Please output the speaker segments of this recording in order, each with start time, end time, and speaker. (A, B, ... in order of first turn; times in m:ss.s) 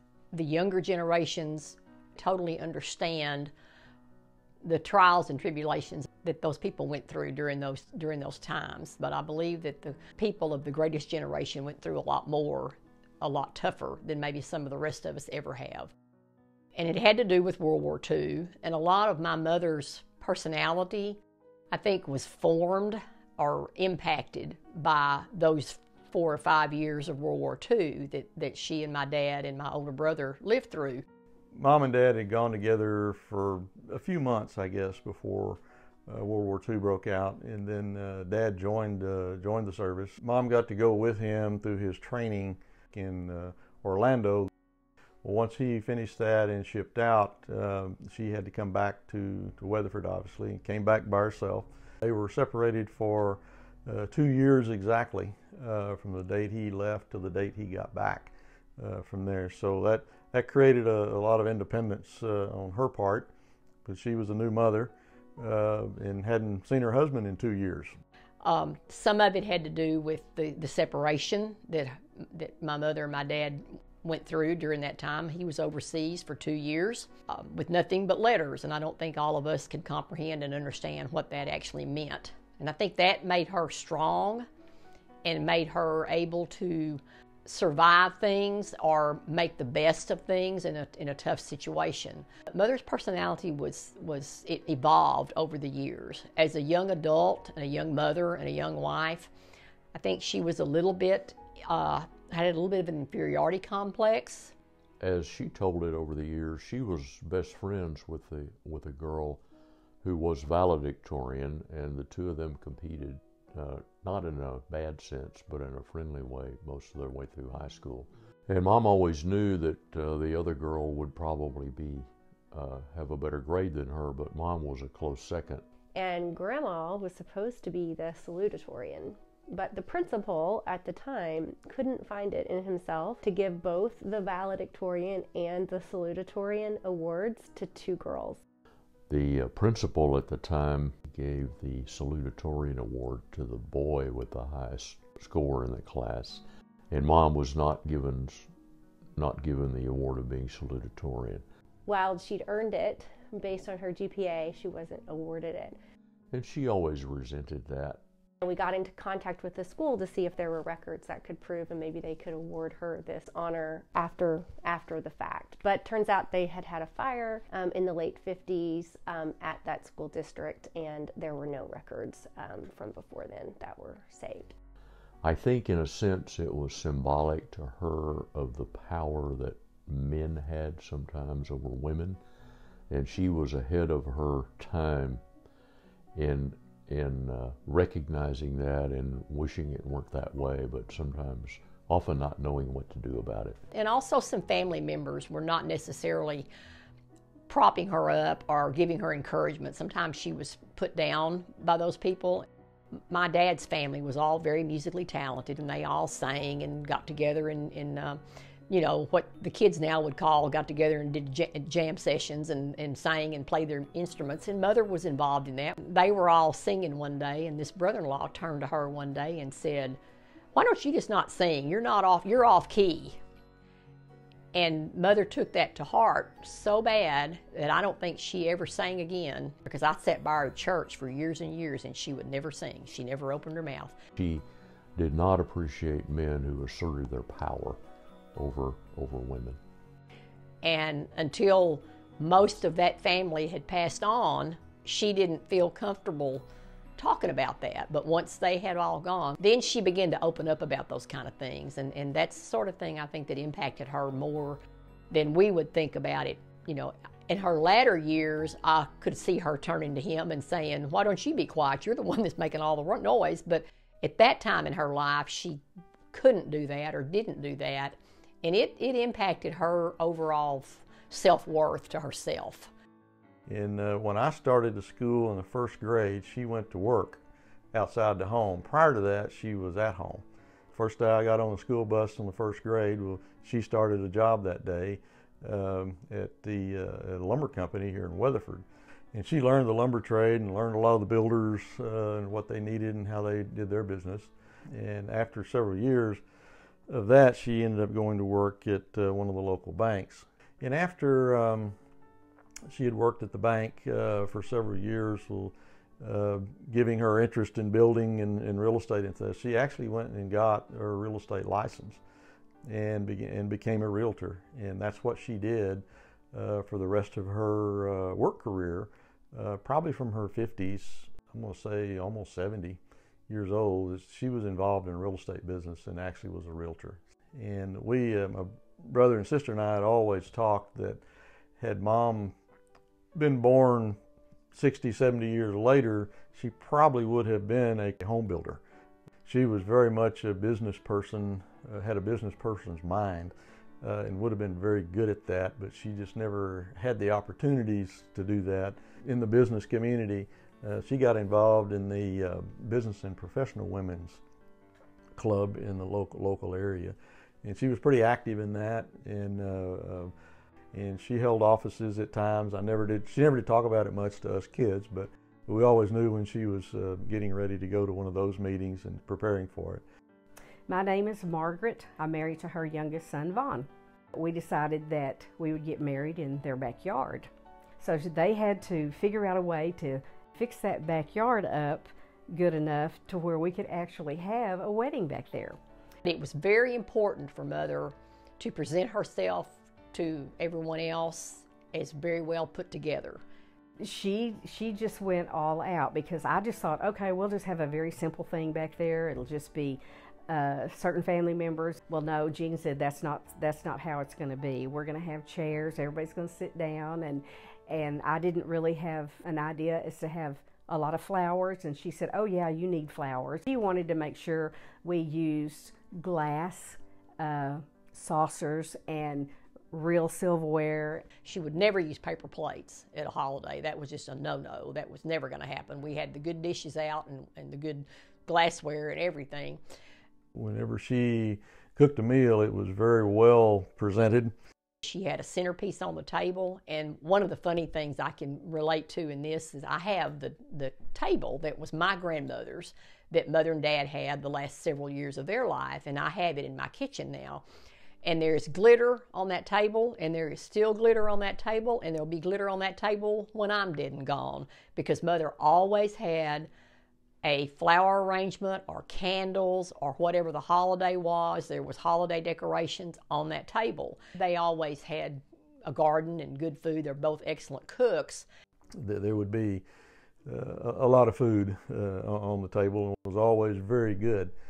0:00.3-0:03.5 A
0:04.6-0:15.9 A
0:16.8-0:21.2 A
0:21.7-0:31.0 A
0:31.6-0:44.5 B
0:45.2-1:03.3 B
1:03.8-1:07.9 B
1:08.4-1:24.4 A
1:25.2-1:39.3 A
1:39.9-1:44.5 A
1:45.0-1:49.4 C
1:50.0-2:05.6 C
2:05.9-2:18.4 D
2:19.1-2:28.5 C
2:29.2-2:31.4 C
2:31.8-2:35.8 D
2:36.3-2:38.0 C
2:38.4-2:54.5 D
2:55.2-3:02.2 C
3:02.9-3:05.2 C
3:06.2-3:13.6 C
3:13.7-3:16.5 A
3:17.5-3:22.5 A
3:23.1-3:40.0 A
3:40.5-3:43.2 A
3:44.5-3:53.9 A
3:54.2-3:57.8 C
3:58.3-3:59.6 C
4:00.6-4:06.4 A
4:07.0-4:14.6 A
4:15.1-4:25.6 A
4:26.1-4:32.7 A
4:33.5-4:37.2 B
4:37.7-4:56.2 B
4:56.9-5:01.8 B
5:02.7-5:12.0 B
5:12.7-5:31.0 B
5:31.6-5:32.3 B
5:33.1-5:34.0 B
5:34.5-5:38.6 B
5:39.2-5:54.2 B
5:55.2-6:00.1 B
6:00.7-6:09.8 B
6:10.7-6:25.6 E
6:26.1-6:33.2 A
6:33.8-7:01.0 E
7:01.2-7:09.6 A
7:10.4-7:14.3 B
7:14.8-7:27.4 A
7:28.0-7:36.5 A
7:37.2-7:48.2 A
7:48.8-7:49.6 B
7:50.3-7:54.3 B